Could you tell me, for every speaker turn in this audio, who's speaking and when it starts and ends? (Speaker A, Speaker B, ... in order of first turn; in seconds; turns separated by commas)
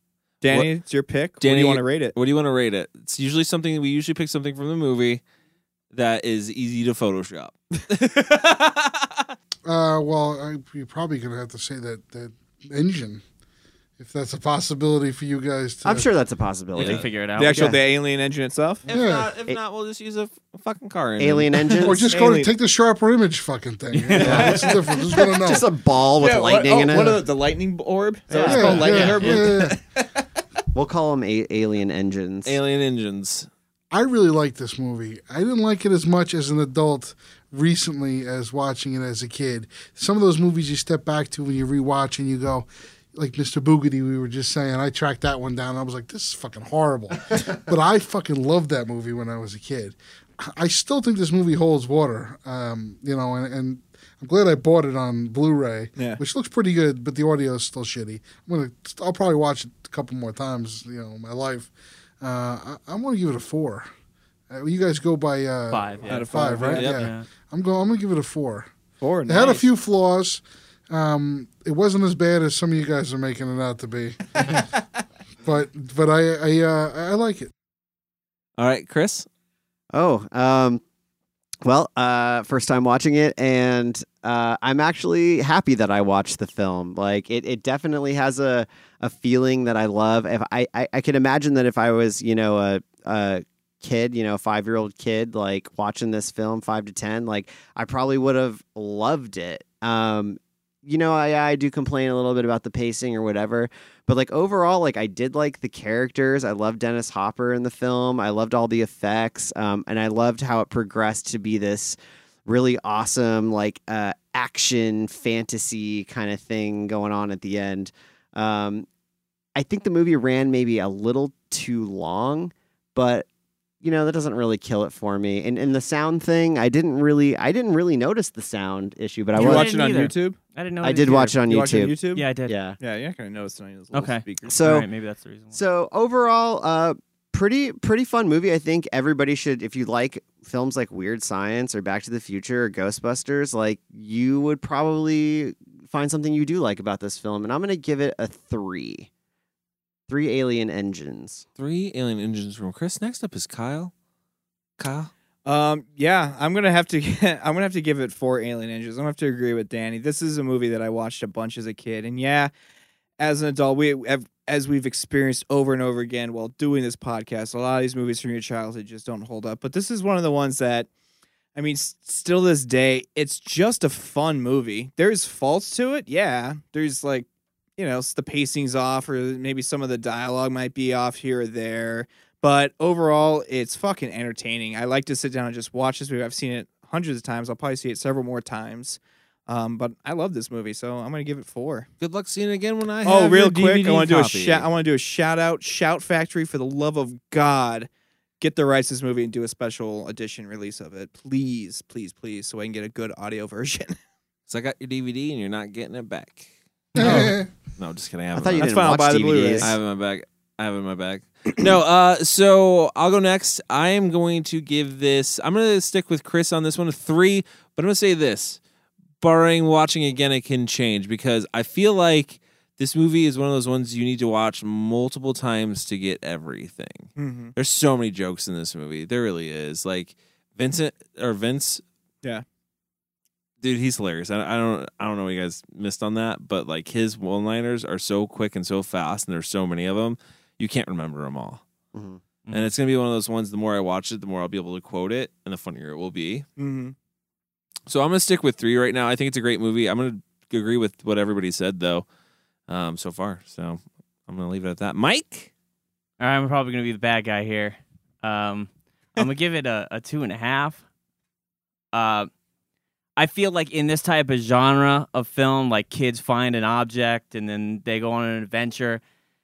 Speaker A: 0.4-2.1, Speaker B: 1.4-5.2, Speaker B: 5.9-8.8, Speaker C: 9.7-13.2, Speaker C: 14.0-16.1, Speaker D: 15.8-17.8, Speaker B: 16.7-17.1, Speaker E: 16.8-17.7, Speaker A: 17.4-18.8, Speaker B: 18.9-21.5, Speaker C: 18.9-19.3, Speaker D: 21.2-22.1, Speaker A: 21.7-22.5, Speaker C: 21.8-25.7, Speaker A: 24.1-24.7, Speaker D: 24.2-27.2, Speaker A: 26.2-30.1, Speaker D: 28.3-29.4, Speaker C: 28.4-29.8, Speaker D: 30.7-32.6, Speaker B: 32.4-33.5, Speaker C: 33.9-63.9, Speaker C: 64.5-68.7, Speaker E: 65.7-67.2, Speaker A: 66.0-66.9, Speaker A: 69.0-69.7, Speaker C: 69.2-74.7, Speaker C: 75.4-77.5, Speaker B: 78.6-79.2, Speaker D: 79.9-80.8, Speaker D: 81.6-118.9, Speaker D: 119.5-123.2, Speaker D: 123.8-129.7, Speaker A: 129.3-130.4, Speaker E: 129.3-131.4, Speaker D: 130.8-132.8, Speaker A: 131.4-132.3, Speaker E: 132.1-132.6, Speaker A: 132.8-134.7, Speaker E: 133.9-135.5, Speaker D: 134.5-134.9, Speaker D: 135.5-149.1, Speaker D: 150.1-151.4, Speaker B: 151.6-153.9, Speaker B: 154.8-155.1, Speaker A: 155.4-162.5, Speaker A: 163.2-170.9, Speaker A: 171.5-177.2, Speaker A: 177.8-191.9, Speaker B: 192.0-194.7, Speaker A: 193.0-197.9, Speaker A: 198.4-203.9, Speaker B: 204.5-206.4, Speaker C: 206.9-207.5, Speaker D: 207.0-207.3, Speaker B: 207.0-207.2, Speaker B: 207.8-208.7, Speaker D: 208.3-209.8, Speaker A: 208.5-209.7, Speaker B: 209.6-218.6, Speaker B: 219.2-231.8, Speaker A: 227.2-227.5, Speaker B: 233.6-241.6, Speaker D: 241.9-242.2, Speaker E: 242.5-242.7, Speaker B: 242.5-246.4, Speaker A: 246.6-246.9, Speaker B: 247.9-252.0, Speaker B: 252.7-255.5, Speaker E: 256.2-260.8, Speaker E: 261.9-262.3, Speaker E: 263.2-269.0